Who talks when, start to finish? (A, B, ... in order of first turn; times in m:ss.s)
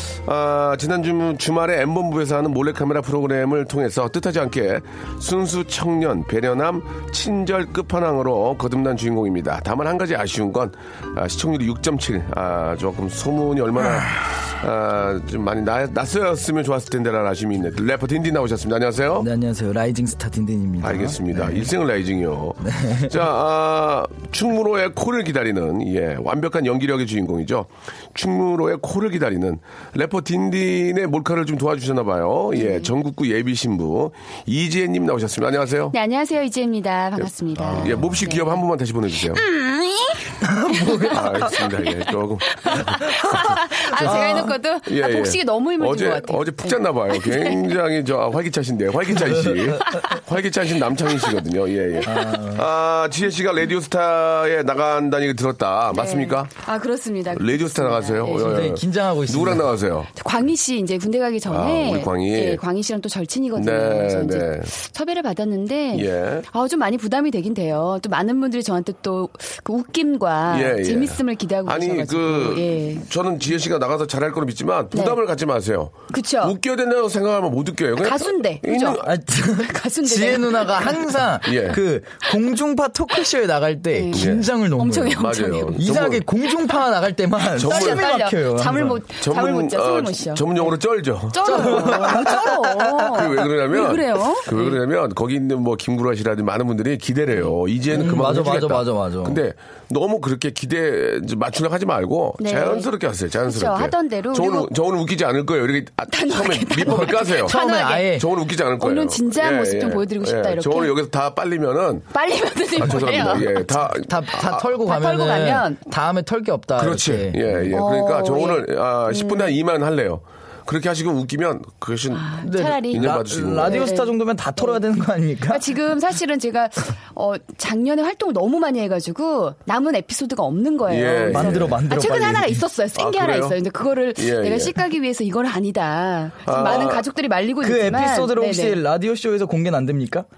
0:00.2-0:19.3 A
0:19.2-0:21.7 B
0:20.8-0:35.9 A
0:22.6-0:23.1 B
0:32.5-0:32.9 C
0:35.9-0:38.6 C
0:37.2-0:39.4 A
0:37.6-0:38.2 B
0:39.3-0:42.0 C
0:40.4-0:41.3 B
0:41.1-0:44.2 A
0:42.6-0:47.6 C
0:44.0-0:44.5 B
0:44.8-0:56.6 A
0:49.4-0:50.0 B
0:52.0-0:52.6 B
0:55.9-0:58.6 C
0:57.3-1:00.1 A
0:58.4-0:59.7 B
1:00.2-1:13.0 C
1:01.5-1:02.6 A
1:03.5-1:04.7 A
1:05.9-1:06.5 A
1:10.5-1:19.0 A
1:14.9-1:15.2 C
1:16.1-1:16.5 C
1:18.0-1:21.3 C
1:19.0-1:29.0 B
1:21.4-1:21.8 A
1:23.9-1:25.9 C
1:24.1-1:24.5 A
1:25.2-1:26.2 A
1:27.6-1:28.2 A
1:27.6-1:30.6 C
1:29.2-1:32.3 A
1:31.3-1:34.8 C
1:31.4-1:33.1 B
1:33.1-1:52.2 A
1:37.9-1:39.4 B
1:42.4-1:42.9 C
1:43.4-1:44.7 C
1:46.1-1:48.2 C
1:46.9-1:48.2 B
1:48.8-1:50.9 C
1:52.1-1:53.8 C
1:52.7-1:54.6 A
1:52.8-1:53.4 B
1:54.0-1:57.7 B
1:54.6-1:55.8 C
1:56.8-2:03.9 A
1:57.7-1:59.5 C
2:02.1-2:04.8 C
2:02.4-2:05.7 B
2:05.5-2:18.8 C
2:10.9-2:11.8 A
2:11.3-2:12.6 B
2:12.9-2:13.6 A
2:14.2-2:14.8 A
2:16.4-2:17.1 A
2:17.6-2:20.2 B